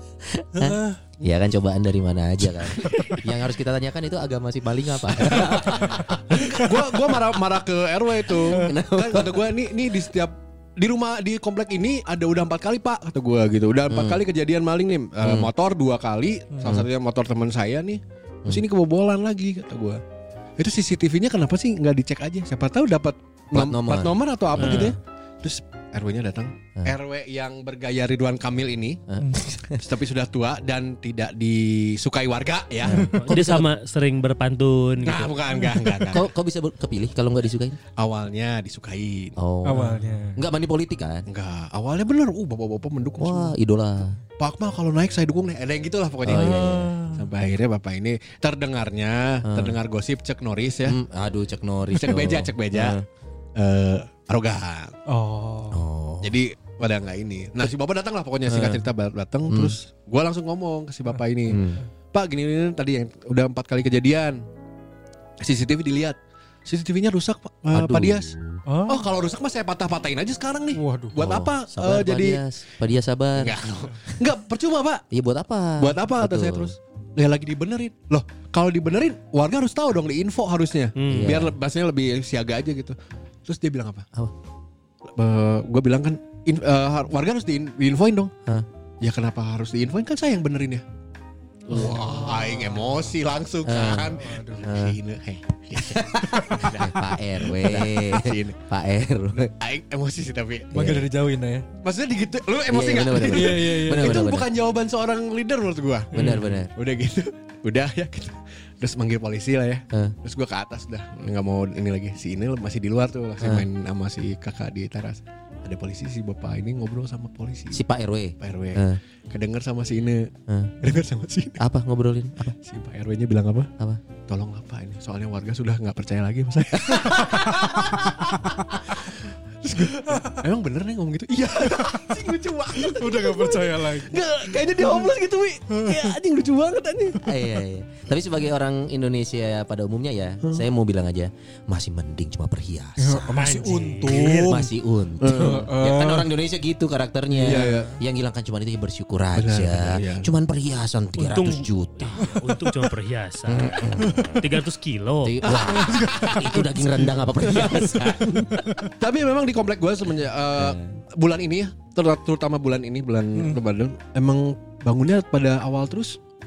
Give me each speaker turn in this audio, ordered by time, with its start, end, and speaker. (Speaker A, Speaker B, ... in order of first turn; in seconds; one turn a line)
Speaker A: 0.2-6.4
Speaker B: 0.5-1.0
Speaker C: 5.2-20.0
Speaker B: 5.5-7.1
Speaker A: 8.3-9.4
Speaker A: 13.9-14.2
Speaker A: 15.2-15.5
Speaker B: 16.5-16.8
Speaker C: 20.6-29.0
Speaker A: 23.5-24.9
Speaker D: 24.6-24.9
Speaker A: 29.1-29.8
Speaker C: 29.7-33.0
Speaker A: 32.8-33.7
Speaker B: 32.9-33.2
Speaker D: 33.2-35.4
Speaker C: 35.0-36.3
Speaker B: 35.6-35.9
Speaker A: 36.1-37.8
Speaker C: 38.0-39.3
Speaker A: 39.4-41.2
Speaker B: 39.6-40.4
Speaker C: 41.3-43.5
Speaker A: 43.2-44.2
Speaker C: 44.4-51.0
Speaker A: 46.2-46.9
Speaker B: 46.3-47.3
Speaker A: 49.4-49.8
Speaker A: 50.9-53.0
Speaker C: 51.9-53.0
Speaker C: 53.5-54.9
Speaker B: 55.0-55.8
Speaker A: 55.7-56.4
Speaker C: 56.2-61.6
Speaker A: 58.5-58.8
Speaker A: 59.5-59.8
Speaker A: 61.5-61.8
Speaker C: 62.1-64.4
Speaker C: 65.4-68.3
Speaker A: 67.7-68.6
Speaker B: 68.7-69.1
Speaker C: 68.9-72.4
Speaker B: 70.7-71.3
Speaker A: 71.2-74.2
Speaker C: 73.3-75.0
Speaker A: 75.1-76.7
Speaker C: 75.8-84.0
Speaker D: 81.0-81.4
Speaker A: 81.0-81.5
Speaker C: 85.2-88.3
Speaker C: 89.0-90.8
Speaker C: 91.7-98.5
Speaker A: 91.7-92.2
Speaker B: 91.8-92.6
Speaker A: 93.6-95.0
Speaker B: 94.1-94.7
Speaker A: 95.8-99.5
Speaker B: 96.2-96.7
Speaker C: 99.5-100.8
Speaker B: 100.7-101.7
Speaker A: 100.8-101.0
Speaker C: 101.8-106.1
Speaker A: 102.7-104.5
Speaker B: 103.2-104.3
Speaker B: 106.1-106.5
Speaker A: 106.1-106.7
Speaker C: 106.7-117.8
Speaker A: 117.7-119.0
Speaker C: 118.4-120.3
Speaker A: 120.5-120.8
Speaker C: 120.8-121.6
Speaker A: 121.6-122.5
Speaker C: 122.6-123.7
Speaker C: 124.3-137.3
Speaker B: 126.9-128.9
Speaker A: 126.9-127.9
Speaker B: 129.8-130.4
Speaker B: 131.6-132.2
Speaker B: 132.8-134.2
Speaker B: 134.8-135.1
Speaker B: 135.7-136.2
Speaker A: 137.2-143.4
Speaker B: 143.0-144.7
Speaker D: 143.3-144.6
Speaker A: 144.1-152.3
Speaker C: 145.2-145.7
Speaker B: 145.3-146.3
Speaker B: 147.3-147.9
Speaker C: 147.4-148.0
Speaker C: 149.3-150.3
Speaker D: 151.2-155.7
Speaker B: 152.2-152.5
Speaker A: 153.5-154.4
Speaker B: 154.1-154.3
Speaker A: 155.2-158.7
Speaker B: 155.6-157.2
Speaker C: 155.7-156.7
Speaker C: 157.3-158.2
Speaker B: 158.3-158.9
Speaker C: 158.9-166.2
Speaker A: 160.6-160.9
Speaker B: 163.3-163.6